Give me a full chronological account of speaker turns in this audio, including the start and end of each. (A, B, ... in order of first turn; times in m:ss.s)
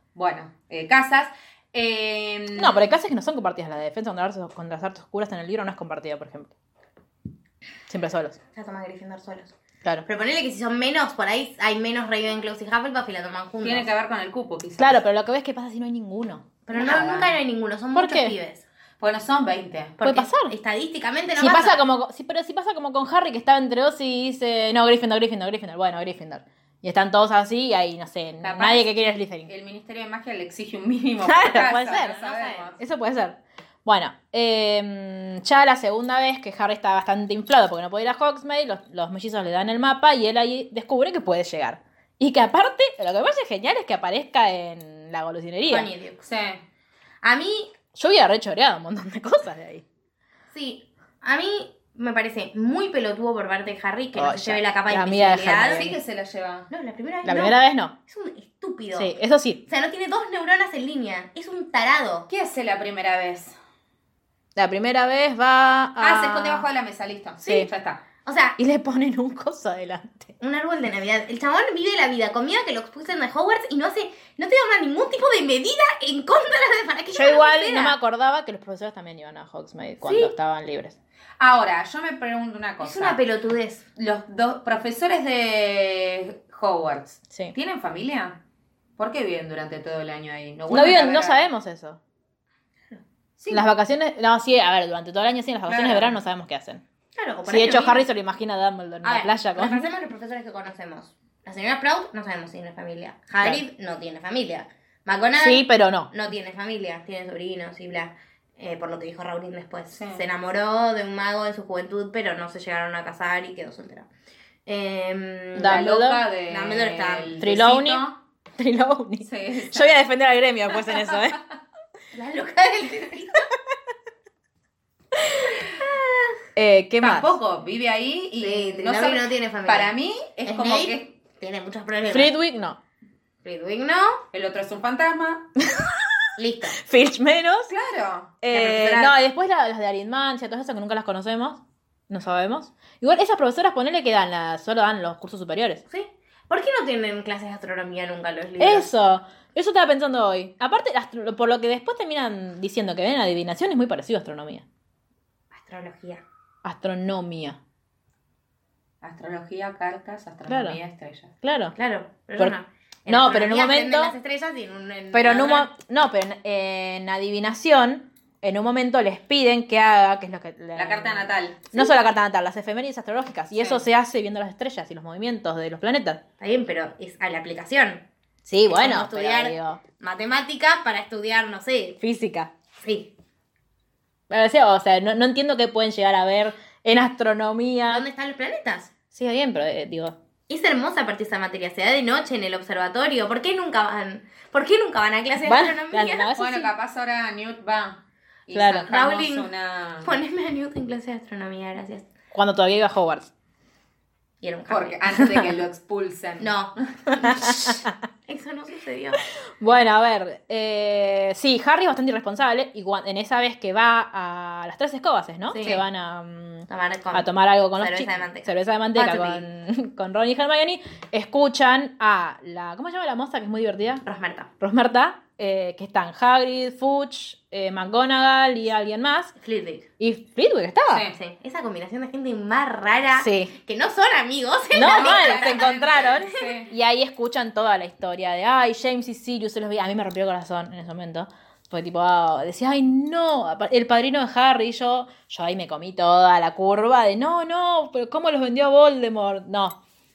0:00.1-0:02.8 A
0:02.6-0:06.5 B
0:07.9-0:08.4 B
0:08.6-0:09.5 C
0:10.0-0:13.9 C
0:13.6-0:15.0 A
0:14.8-0:16.4 B
0:16.7-0:18.6 C
0:16.7-0:17.3 A
0:17.9-0:18.4 B
0:19.0-0:20.0 A
0:20.0-0:21.8 C
0:20.0-0:20.5 B
0:21.4-0:29.5 B
0:28.4-0:32.8 A
0:31.2-0:32.2 B
0:31.8-0:32.7 C
0:32.8-0:45.9 B
0:45.7-0:46.2 C
0:46.2-0:46.6 A
0:47.2-0:47.7 C
0:47.9-0:49.8 B
0:50.5-0:56.0 C
0:54.1-0:56.0 B
0:55.7-0:56.7 A
0:56.7-0:59.1 C
0:57.2-0:57.9 B
0:59.0-0:59.6 B
0:59.7-1:02.3 C
1:02.3-1:03.6 A
1:04.6-1:06.7 B
1:06.0-1:08.0 A
1:08.2-1:08.6 C
1:08.6-1:10.3 B
1:10.4-1:18.0 C
1:17.1-1:21.0 B
1:20.0-1:20.3 C
1:21.4-1:23.2 A
1:22.8-1:23.9 C
1:24.0-1:28.4 A
1:29.0-1:31.4 A
1:30.7-1:32.0 B
1:33.4-1:33.7 A
1:33.5-1:36.8 B
1:35.7-1:36.2 A
1:37.2-1:38.0 C
1:37.5-1:39.9 B
1:39.0-1:54.1 C
1:45.4-1:46.1 B
1:49.9-1:50.2 A
1:54.7-1:55.9 C
1:55.6-1:56.2 B
1:55.6-1:58.2 A
1:56.5-1:57.4 C
1:57.4-2:01.4 B
1:59.2-2:00.0 A
2:02.1-2:03.5 C
2:06.6-2:07.3 B
2:07.0-2:11.1 A
2:08.4-2:09.9 C
2:10.4-2:12.4 C
2:12.1-2:12.8 B
2:13.4-2:14.2 C
2:14.3-2:15.5 A
2:15.6-2:16.1 B
2:16.4-2:16.8 C
2:16.7-2:17.7 B
2:17.7-2:18.3 A
2:18.4-2:25.8 B
2:18.5-2:19.2 C
2:25.9-2:28.9 C
2:28.6-2:34.6 B
2:35.5-2:36.2 C
2:36.6-2:37.6 B
2:39.0-2:41.3 A
2:40.5-2:40.8 B
2:41.4-2:41.8 B
2:41.8-2:45.7 C
2:43.1-2:44.1 B
2:45.1-2:56.2 B
2:50.8-2:51.7 A
2:53.6-2:53.8 A
2:56.4-2:58.0 C
2:58.5-2:59.8 B
2:58.6-3:02.0 C
3:02.0-3:02.5 B
3:02.8-3:03.1 C
3:04.3-3:08.0 B
3:07.9-3:08.9 C
3:09.1-3:10.2 B
3:10.5-3:16.3 C
3:15.4-3:16.7 B
3:16.4-3:20.1 A
3:18.5-3:18.9 B
3:18.9-3:19.5 C
3:20.0-3:22.1 C
3:22.3-3:23.3 B
3:24.4-3:25.4 C
3:24.7-3:26.9 A
3:26.4-3:29.2 C
3:27.2-3:27.9 B
3:29.6-3:44.0 B
3:35.5-3:35.8 C
3:36.7-3:39.4 C
3:44.0-3:44.5 C
3:44.6-3:49.4 B
3:49.4-3:49.9 C
3:50.0-3:51.1 B
3:51.1-3:56.6 C
3:53.2-3:53.5 B
3:54.7-4:09.8 B
3:54.8-3:56.7 A